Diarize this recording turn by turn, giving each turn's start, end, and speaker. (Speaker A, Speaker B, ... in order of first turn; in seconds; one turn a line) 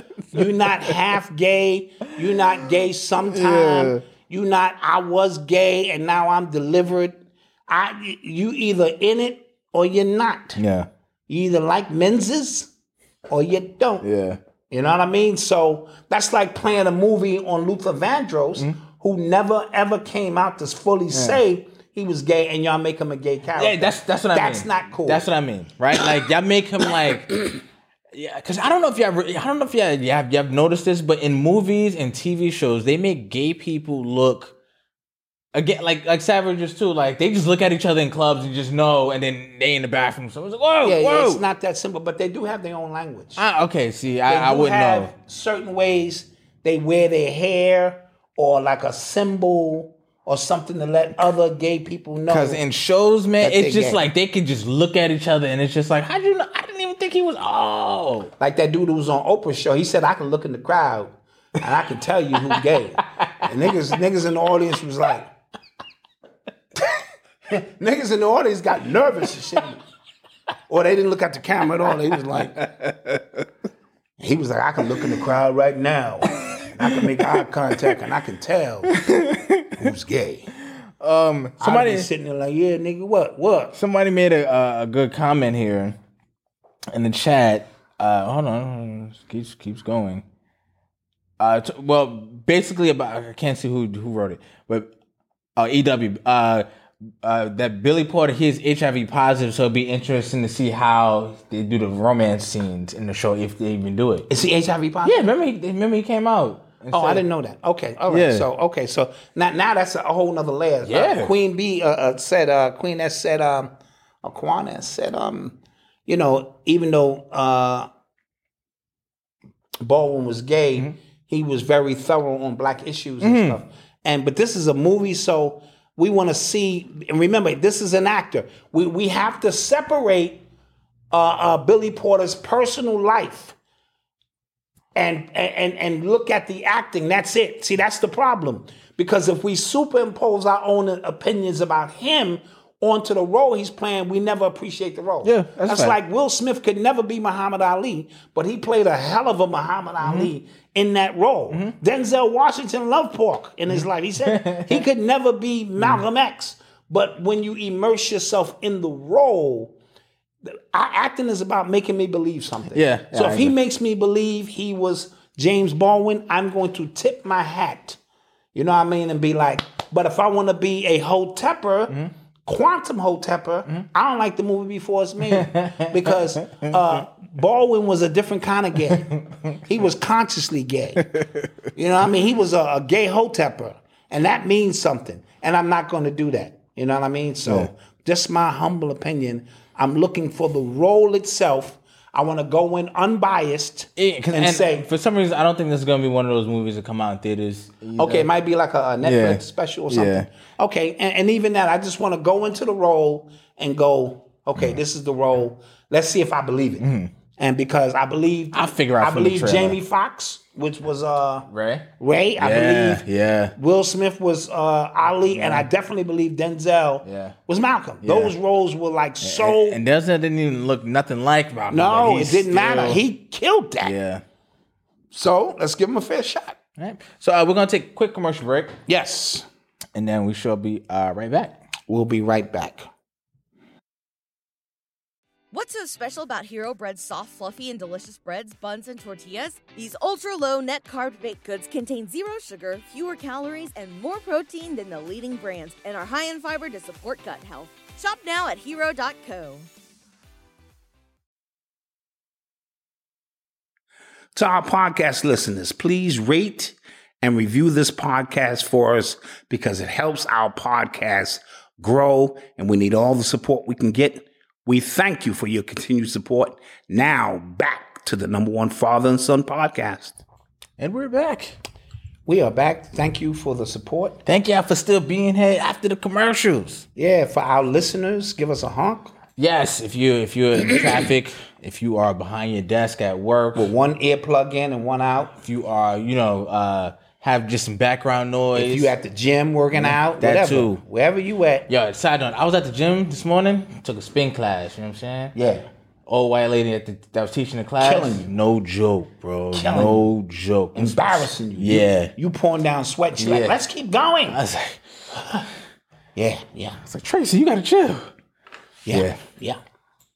Speaker A: 0.3-1.0
Speaker B: 0.3-10.6
Speaker A: 3.3-4.0
Speaker A: 10.6-10.9
Speaker B: 11.3-12.7
Speaker B: 13.3-14.1
Speaker A: 14.0-14.4
Speaker B: 14.7-25.2
Speaker A: 21.1-21.4
Speaker A: 23.5-27.5
Speaker A: 28.1-34.5
Speaker A: 35.5-41.4
Speaker B: 40.8-43.4
Speaker A: 43.4-45.1
Speaker B: 44.3-52.6
Speaker A: 52.3-58.3
Speaker B: 53.4-54.0
Speaker B: 58.4-65.3
Speaker A: 63.2-63.4
Speaker B: 67.5-69.8
Speaker B: 70.7-72.6
Speaker A: 72.3-73.4
Speaker B: 74.2-78.9
Speaker A: 76.3-76.7
Speaker A: 78.9-79.9
Speaker B: 79.8-80.5
Speaker A: 81.0-82.1
Speaker B: 81.6-83.8
Speaker A: 83.7-86.0
Speaker A: 86.9-90.2
Speaker A: 91.4-94.9
Speaker A: 95.5-96.7
Speaker A: 97.2-104.3
Speaker B: 104.3-105.3
Speaker A: 105.0-107.2
Speaker B: 106.9-117.9
Speaker A: 108.1-108.5
Speaker A: 110.8-111.3
Speaker B: 119.8-130.4
Speaker A: 123.2-123.6
Speaker B: 131.1-133.6
Speaker B: 134.9-159.7
Speaker A: 145.2-145.9
Speaker A: 150.0-150.3
Speaker A: 153.7-154.8
Speaker B: 160.4-168.0
Speaker A: 162.7-163.5
Speaker B: 168.5-179.1
Speaker A: 175.3-176.7
Speaker B: 179.7-181.1
Speaker B: 181.7-194.9
Speaker A: 194.0-198.3
Speaker B: 198.0-206.8
Speaker A: 199.0-200.3
Speaker A: 206.8-207.1
Speaker B: 207.4-211.5
Speaker A: 208.5-209.8
Speaker A: 211.5-211.9
Speaker B: 212.0-213.0
Speaker A: 212.4-213.5
Speaker B: 213.6-219.8
Speaker A: 215.3-215.7
Speaker A: 217.0-217.4
Speaker A: 218.0-218.3
Speaker A: 219.2-223.0
Speaker B: 221.7-223.9
Speaker A: 223.8-224.2
Speaker B: 225.1-226.6
Speaker A: 226.8-228.8
Speaker B: 228.9-229.4
Speaker A: 229.9-231.6
Speaker B: 231.9-232.9
Speaker C: 235.5-249.7
Speaker B: 254.3-270.2
Speaker A: 270.8-271.6
Speaker B: 272.2-274.2
Speaker A: 274.2-276.8
Speaker B: 277.0-279.1
Speaker A: 279.4-283.7
Speaker B: 283.5-285.3
Speaker A: 285.4-288.9
Speaker B: 288.5-291.7
Speaker A: 289.7-290.8
Speaker A: 291.7-295.3
Speaker B: 295.3-295.6
Speaker A: 296.1-302.1
Speaker B: 297.8-298.3
Speaker B: 299.5-300.1
Speaker B: 300.7-304.4
Speaker A: 303.2-303.6
Speaker A: 304.3-305.4
Speaker B: 306.1-306.8
Speaker A: 306.9-308.1
Speaker B: 308.9-309.6
Speaker A: 308.9-309.2